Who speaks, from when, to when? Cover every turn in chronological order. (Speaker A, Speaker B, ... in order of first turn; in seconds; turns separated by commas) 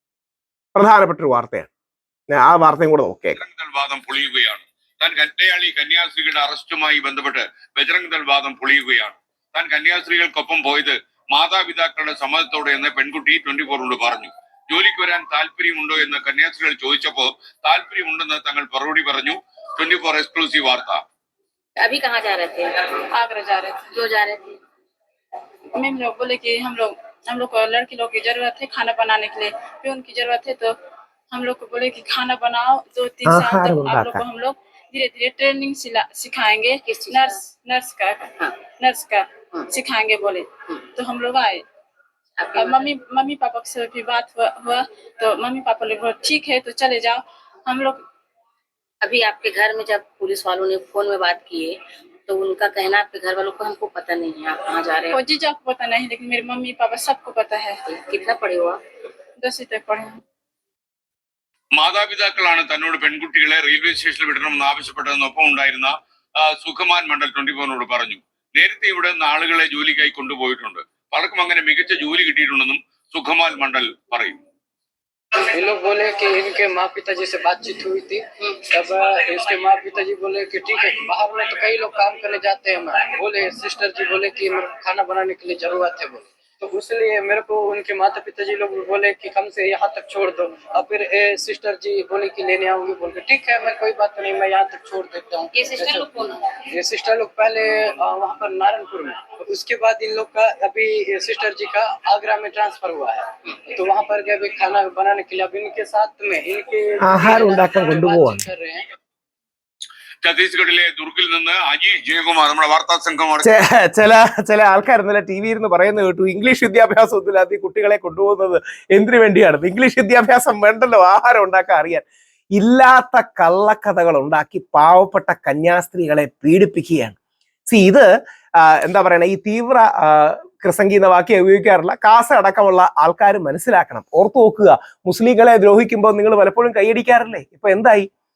Speaker A: 0.8-1.7, Speaker A: 2.3-3.4, Speaker B: 3.3-21.0, Speaker C: 21.8-22.8, Speaker D: 23.1-23.9, Speaker C: 23.9-24.6, Speaker D: 25.7-30.7, Speaker D: 31.3-41.6, Speaker A: 33.2-34.2, Speaker C: 36.9-37.4, Speaker C: 42.4-42.9, Speaker D: 42.5-48.0, Speaker C: 49.0-55.2, Speaker D: 55.1-57.8, Speaker C: 57.9-58.8, Speaker D: 59.4-60.2, Speaker B: 61.7-74.3, Speaker E: 75.5-108.8, Speaker C: 95.5-96.4, Speaker A: 107.0-108.5, Speaker B: 110.2-113.5, Speaker A: 113.4-122.0, Speaker A: 122.6-128.1, Speaker A: 128.6-138.1